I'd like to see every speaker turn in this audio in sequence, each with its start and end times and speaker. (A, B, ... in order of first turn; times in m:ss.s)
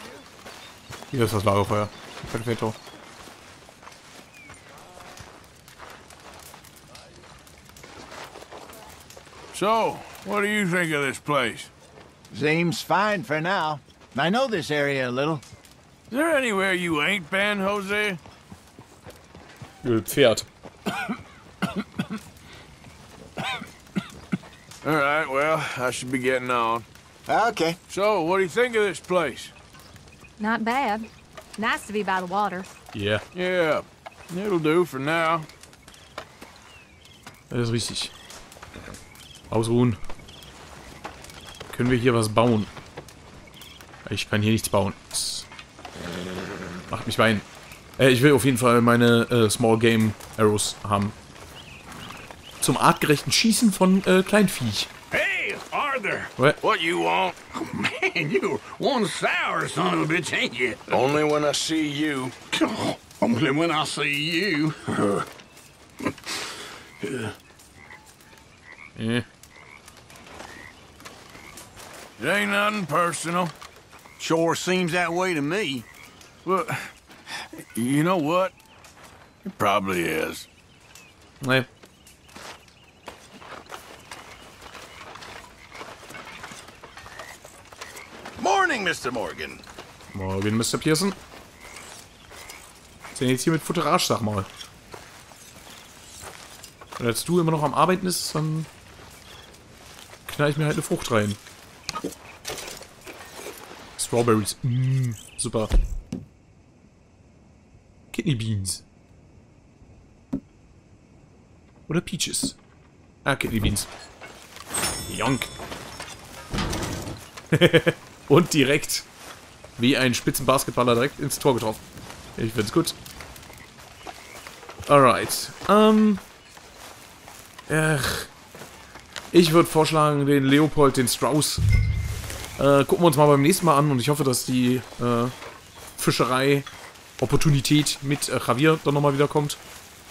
0:01.1-0:02.8 A
0:09.5-0:11.7 B
0:12.3-0:15.4 C
0:16.1-0:18.2 B
0:19.8-0:20.5 A
0:24.8-0:26.9 B
0:27.3-0:27.8 C
0:27.9-0:29.5 B
0:30.4-0:32.7 D
0:32.9-0:33.2 A
0:33.3-0:35.5 B
0:37.5-0:38.1 A
0:39.5-0:40.0 A
0:41.7-0:42.7 A
0:44.0-0:45.5 A
0:46.9-0:47.4 A
0:48.0-0:51.2 A
0:52.6-0:54.9 A
0:55.1-0:57.4 B
0:55.6-0:56.3 E
0:57.5-1:01.0 E
1:00.9-1:02.4 B
1:02.5-1:05.2 E
1:07.0-1:07.3 E
1:09.0-1:09.3 A
1:12.2-1:13.5 B
1:14.2-1:15.9 E
1:16.4-1:16.9 B
1:17.6-1:18.6 B
1:19.5-1:20.5 B
1:21.4-1:21.7 A
1:28.4-1:29.6 E
1:30.1-1:31.2 A
1:33.1-1:34.5 A
1:37.0-1:38.7 A
1:40.3-1:41.4 A
1:44.0-1:45.7 A
1:48.1-1:48.8 A
1:51.9-1:52.6 A
1:53.2-1:53.9 A
1:55.1-1:55.5 A
1:57.5-1:59.1 A
1:59.8-2:01.8 A
2:02.4-2:03.0 A
2:04.9-2:06.2 A
2:07.7-2:08.3 A
2:09.3-2:11.6 A
2:12.6-2:15.3 A
2:16.0-2:16.7 A
2:17.2-2:19.6 A